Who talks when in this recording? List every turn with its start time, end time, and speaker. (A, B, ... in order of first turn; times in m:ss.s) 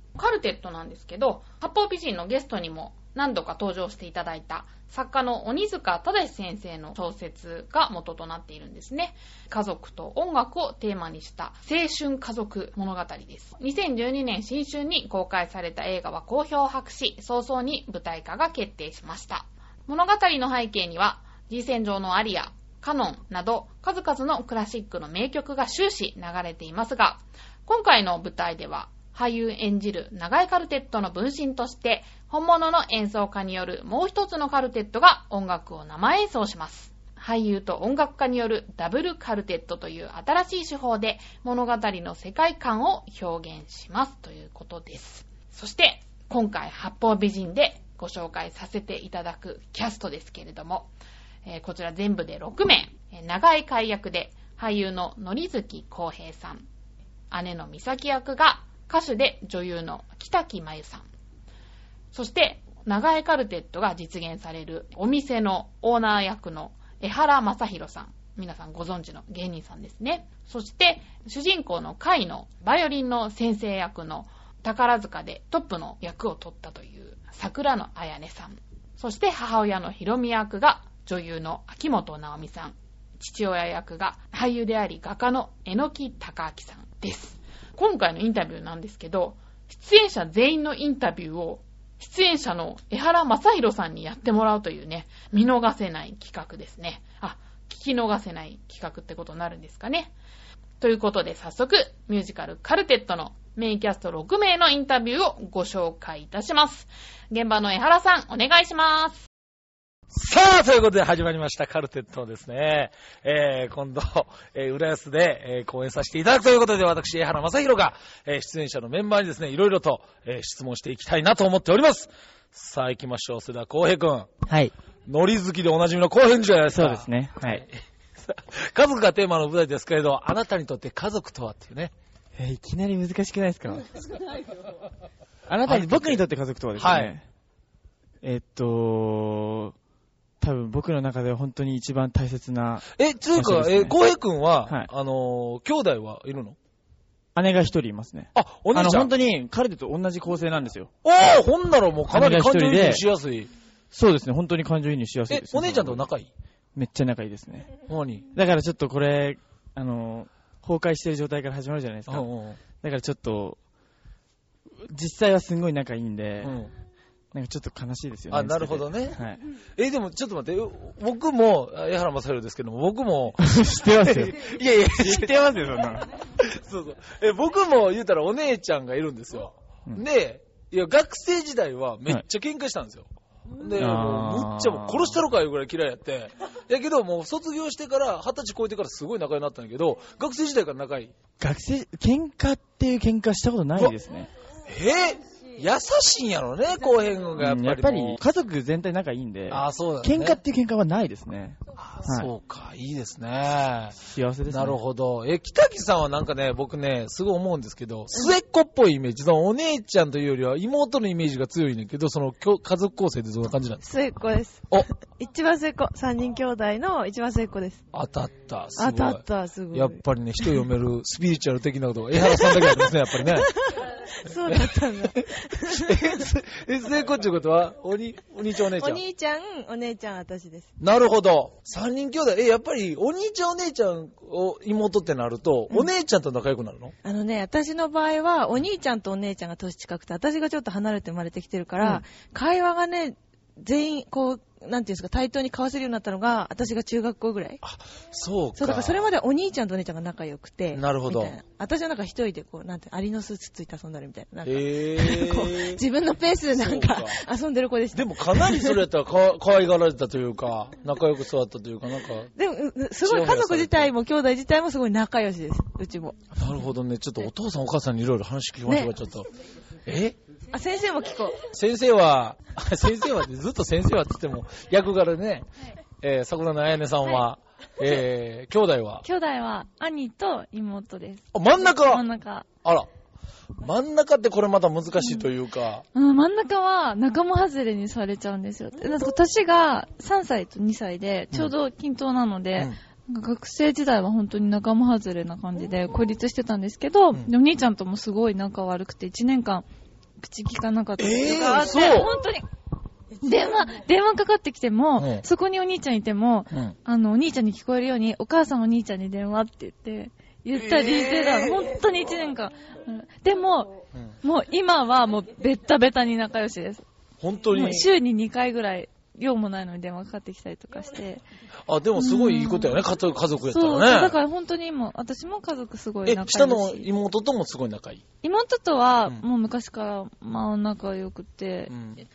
0:00.2-0:50.9 A
0:51.4-0:56.7 A
0:57.3-1:01.1 A
1:02.1-1:40.2 A
1:40.8-1:49.2 A
1:50.1-2:04.3 B
2:04.5-2:04.7 C
2:05.1-2:07.7 B
2:06.8-2:07.6 C
2:08.2-2:11.9 B
2:12.4-2:13.9 C
2:15.5-2:17.2 C
2:15.6-2:16.2 B
2:16.8-2:17.1 B
2:18.2-2:19.8 C
2:20.4-2:24.0 C
2:23.0-2:26.6 B
2:27.4-2:30.9 C
2:28.4-2:29.1 B
2:31.0-2:33.5 B
2:32.1-2:33.0 C
2:33.9-2:36.1 C
2:35.3-2:36.3 B
2:36.8-2:37.7 C
2:37.9-2:38.3 B
2:38.4-2:43.6 C
2:42.1-2:42.6 B
2:44.9-2:46.6 C
2:46.4-2:46.7 B
2:47.3-2:49.4 C
2:48.3-2:49.2 B
2:49.8-2:55.4 B
2:53.4-2:54.4 C
2:54.9-2:56.1 C
2:56.2-3:03.1 B
3:03.6-3:11.1 B
3:03.8-3:05.2 C
3:11.4-3:14.3 C
3:14.7-3:18.2 B
3:17.4-3:22.3 C
3:19.5-3:20.4 B
3:21.8-3:24.0 B
3:24.0-3:24.8 C
3:24.5-3:33.8 B
3:33.8-3:37.8 D
3:37.9-3:43.5 B
3:38.8-3:40.6 D
3:42.2-3:43.0 D
3:44.2-3:46.2 D
3:44.5-3:49.0 B
3:48.8-3:50.7 D
3:50.8-3:57.0 B
3:57.0-4:07.6 D
4:07.6-4:09.1 B
4:08.6-4:18.8 D
4:10.7-4:11.4 B
4:14.4-4:15.8 B
4:16.5-4:17.2 B
4:17.9-4:22.3 B
4:22.4-4:26.2 D
4:23.0-4:23.9 B
4:26.4-4:29.3 B
4:28.7-4:28.9 D
4:29.9-4:30.2 B
4:30.5-4:31.4 D
4:31.5-4:35.5 B
4:36.0-4:39.0 B
4:39.0-4:42.5 E
4:41.3-4:42.0 B
4:43.6-4:45.8 B
4:45.0-4:45.3 E
4:45.9-4:59.6 E
5:00.2-5:02.5 E
5:01.0-5:02.1 B
5:03.2-5:16.8 E
5:05.0-5:05.2 B
5:10.6-5:11.6 B
5:17.2-5:17.9 B
5:17.5-5:21.2 E
5:21.7-5:24.2 B
5:22.0-5:22.8 E
5:23.5-5:26.9 E
5:26.1-5:28.0 B
5:28.2-5:31.7 E
5:31.7-5:32.0 B